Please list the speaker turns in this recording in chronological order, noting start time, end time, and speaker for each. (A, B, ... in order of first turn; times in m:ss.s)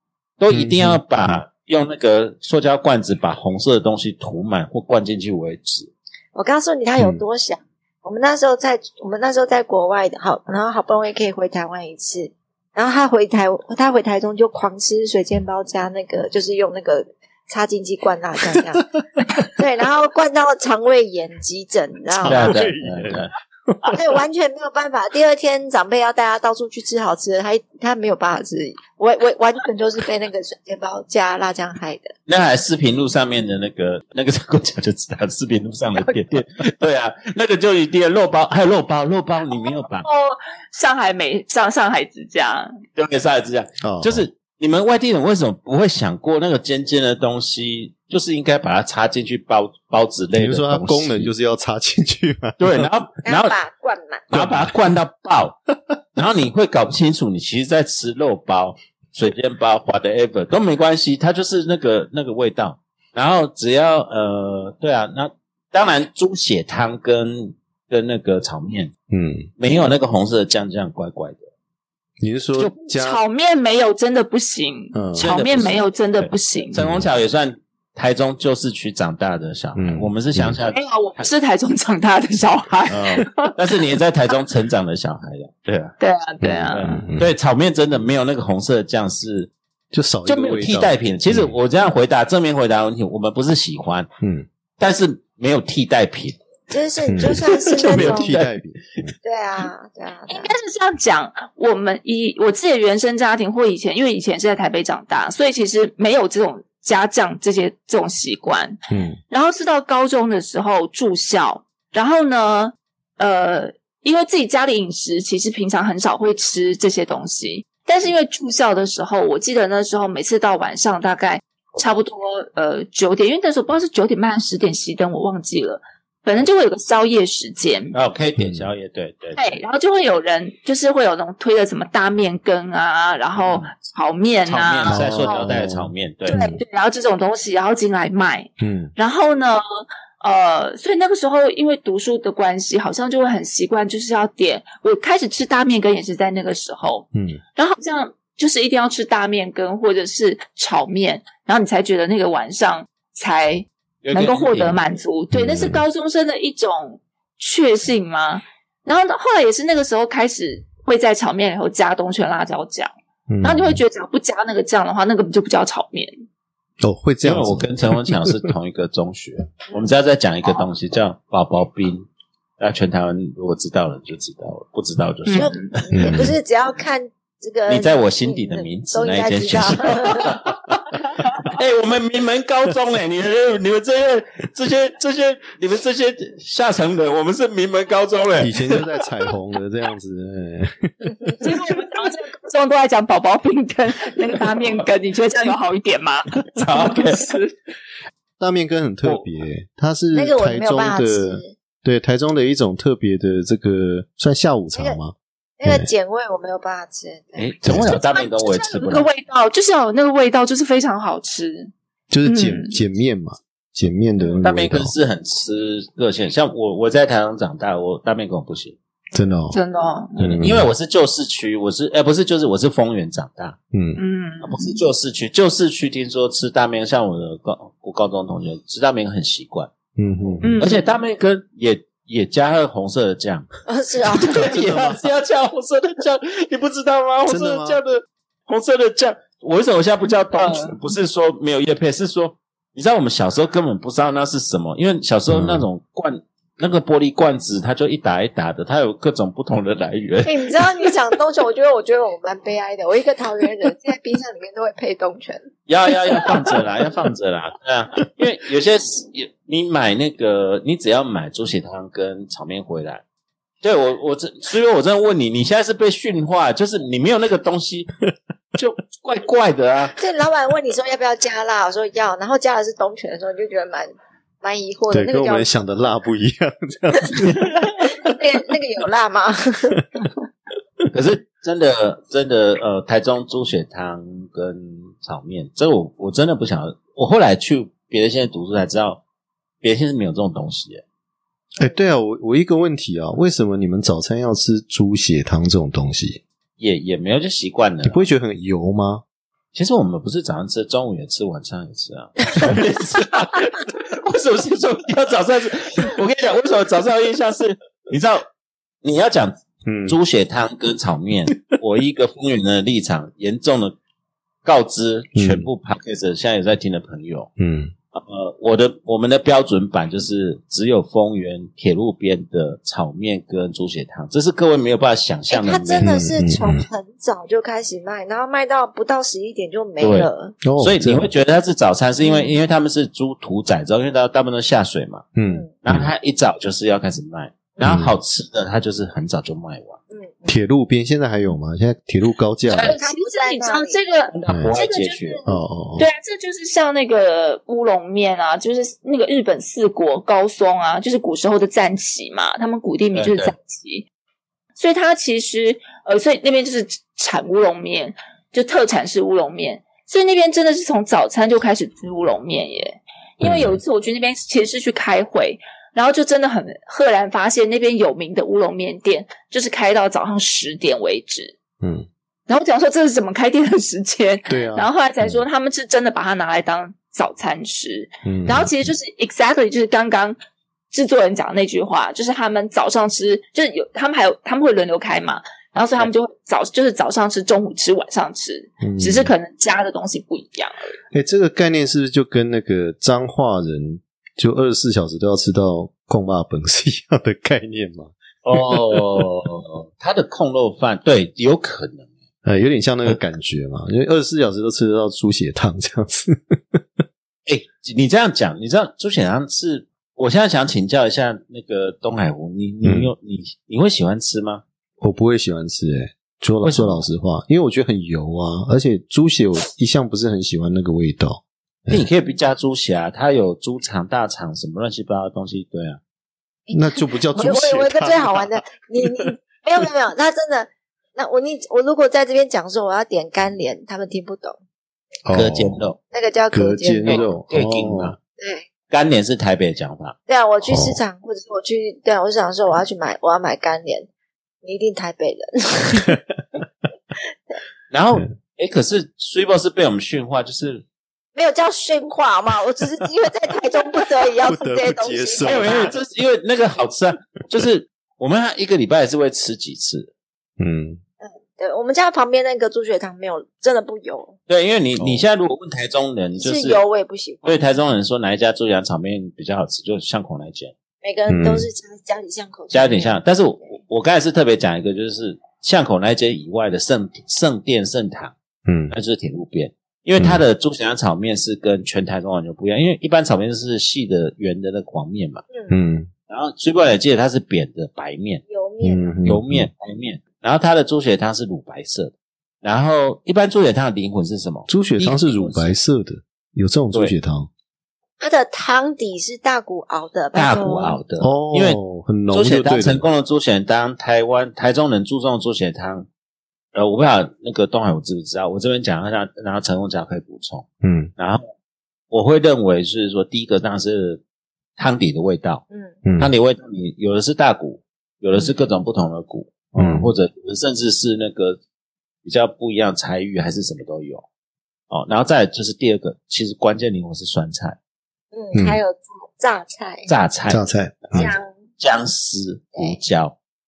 0:00.4-0:05.9 A
0:00.5-0:01.4 B
0:06.3-0:18.9 C
0:07.0-0:07.2 B
0:19.4-0:22.6 C
0:22.2-0:23.3 A
0:22.3-0:24.1 B
0:23.9-0:32.1 C
0:32.3-0:40.1 A
0:39.6-0:42.7 D
0:43.0-0:51.3 A
0:43.8-0:44.3 B
0:50.4-0:52.9 B
0:52.6-0:53.6 A
0:53.2-0:54.3 C
0:54.3-0:55.6 A
0:54.3-0:54.7 B
0:56.2-1:08.9 A
1:09.1-1:09.5 B
1:09.6-1:11.5 A
1:12.2-1:13.2 B
1:12.8-1:16.8 D
1:14.9-1:15.3 B
1:15.2-1:21.2 A
1:16.8-1:17.0 B
1:19.7-1:20.6 B
1:20.7-1:23.6 D
1:22.9-1:23.2 B
1:23.1-1:25.9 A
1:26.0-1:27.0 D
1:26.4-1:27.3 B
1:26.6-1:29.5 A
1:29.9-1:31.6 B
1:30.2-1:34.1 A
1:34.2-1:34.5 B
1:34.8-1:36.4 A
1:36.7-1:38.4 C
1:37.0-1:39.1 B
1:37.2-1:38.6 A
1:39.2-1:40.5 C
1:40.3-1:48.8 D
1:48.9-1:49.2 B
1:49.3-2:08.0 D
2:07.9-2:09.6 A
2:08.4-2:08.7 B
2:09.4-2:15.5 D
2:13.3-2:13.7 A
2:14.4-2:16.4 A
2:14.9-2:16.6 B
2:16.3-2:42.9 D
2:18.6-2:18.9 B
2:27.1-2:27.4 B
2:34.0-2:34.8 A
2:35.3-2:35.8 B
2:43.3-2:43.8 B
2:43.4-2:46.1 D
2:46.8-2:48.5 B
2:47.2-2:52.1 A
2:52.6-2:56.3 A
2:55.3-2:55.8 D
2:55.3-3:00.4 C
2:55.9-2:56.3 B
2:57.7-3:00.8 A
3:01.4-3:08.8 A
3:08.4-3:11.2 B
3:11.4-3:17.5 D
3:16.5-3:17.3 A
3:18.4-3:25.1 B
3:20.1-3:21.5 C
3:24.7-3:25.0 C
3:25.6-3:27.5 C
3:27.4-3:29.1 A
3:27.6-3:27.9 B
3:27.8-3:31.7 D
3:32.1-3:34.9 B
3:32.2-3:32.8 D
3:34.4-3:38.8 A
3:39.1-3:39.6 B
3:39.5-3:40.2 D
3:40.2-3:43.6 A
3:40.2-3:40.7 B
3:43.7-3:44.0 B
3:44.0-3:44.8 D
3:44.4-3:49.7 A
3:50.0-3:50.6 B
3:50.4-3:50.8 D
3:50.6-3:53.5 A
3:53.7-3:54.5 C
3:54.1-4:10.6 A
3:54.2-3:55.1 B
3:57.3-3:57.8 B
4:05.3-4:05.7 B
4:10.2-4:15.5 C
4:15.7-4:23.0 A
4:16.1-4:16.4 C
4:23.6-4:27.9 A
4:28.6-4:29.9 A
4:30.0-4:33.9 C
4:34.4-4:35.5 C
4:34.9-4:38.2 B
4:37.8-4:39.8 C
4:40.9-4:49.0 A
4:49.6-4:50.8 A
4:51.6-4:56.2 B
4:56.6-4:58.0 A
4:57.8-4:59.0 B
4:59.5-5:08.2 A
5:08.8-5:13.8 A
5:09.6-5:10.0 B
5:14.4-5:17.3 A
5:15.2-5:15.5 B
5:17.4-5:17.7 B
5:17.9-5:25.9 A
5:25.3-5:30.4 C
5:25.8-5:26.6 B
5:29.8-5:35.0 A
5:30.4-5:31.1 B
5:32.0-5:32.3 C
5:35.2-5:35.9 B
5:35.6-5:39.8 A
5:37.6-5:37.9 B
5:39.9-5:40.3 C
5:40.2-5:42.7 B
5:42.5-5:53.8 D
5:42.6-5:43.8 C
5:44.1-5:45.2 A
5:44.3-5:44.5 B
5:45.2-5:45.9 B
5:52.9-5:53.3 A
5:54.6-6:11.3 D
6:03.2-6:03.6 B
6:11.6-6:11.9 B
6:12.3-6:20.2 D
6:14.3-6:15.2 B
6:18.0-6:18.7 B
6:20.7-6:30.8 D
6:28.6-6:29.1 B
6:30.9-6:39.0 B
6:38.2-6:41.9 A
6:42.2-6:46.6 B
6:47.2-6:54.4 A
6:52.6-6:52.9 B
6:54.8-7:01.8 B
6:56.4-6:56.8 A
7:01.7-7:05.8 A
7:06.5-7:14.4 C
7:06.5-7:08.2 B
7:15.0-7:15.6 B
7:15.1-7:15.8 A
7:15.9-7:17.1 C
7:16.3-7:17.9 B
7:16.9-7:18.0 A
7:18.2-7:18.5 C
7:18.7-7:20.0 A
7:20.1-7:23.9 C
7:20.5-7:20.8 B
7:24.4-7:26.0 C
7:27.7-7:30.6 A
7:31.2-7:35.8 C
7:34.2-7:35.7 B
7:35.2-7:39.9 A
7:40.4-7:40.8 B
7:41.0-7:44.2 C
7:44.3-7:46.6 A
7:44.8-7:45.0 B
7:46.2-7:47.4 C
7:47.2-7:50.5 A
7:50.8-7:53.0 C
7:51.1-7:51.5 B
7:52.5-7:58.1 A
7:58.4-7:58.7 B
7:58.7-8:05.2 A
8:00.0-8:00.2 B
8:05.5-8:05.9 B
8:06.1-8:08.2 A
8:08.3-8:08.9 C
8:08.6-8:09.5 B
8:09.0-8:15.5 A
8:14.5-8:17.3 B
8:18.0-8:20.8 C
8:20.1-8:25.9 A
8:21.0-8:22.8 B
8:26.5-8:30.4 A
8:30.6-8:30.9 B
8:31.0-8:31.3 A
8:31.9-8:34.0 A
8:34.6-8:35.4 A
8:35.5-8:35.8 C
8:35.8-8:36.1 B
8:36.0-8:41.4 A
8:39.5-8:39.9 B
8:42.0-8:44.0 A
8:44.7-8:47.6 A
8:48.1-8:49.9 C
8:48.3-8:48.6 B
8:49.9-8:50.4 A
8:50.3-8:51.1 B
8:50.9-8:53.2 A
8:50.9-8:51.3 C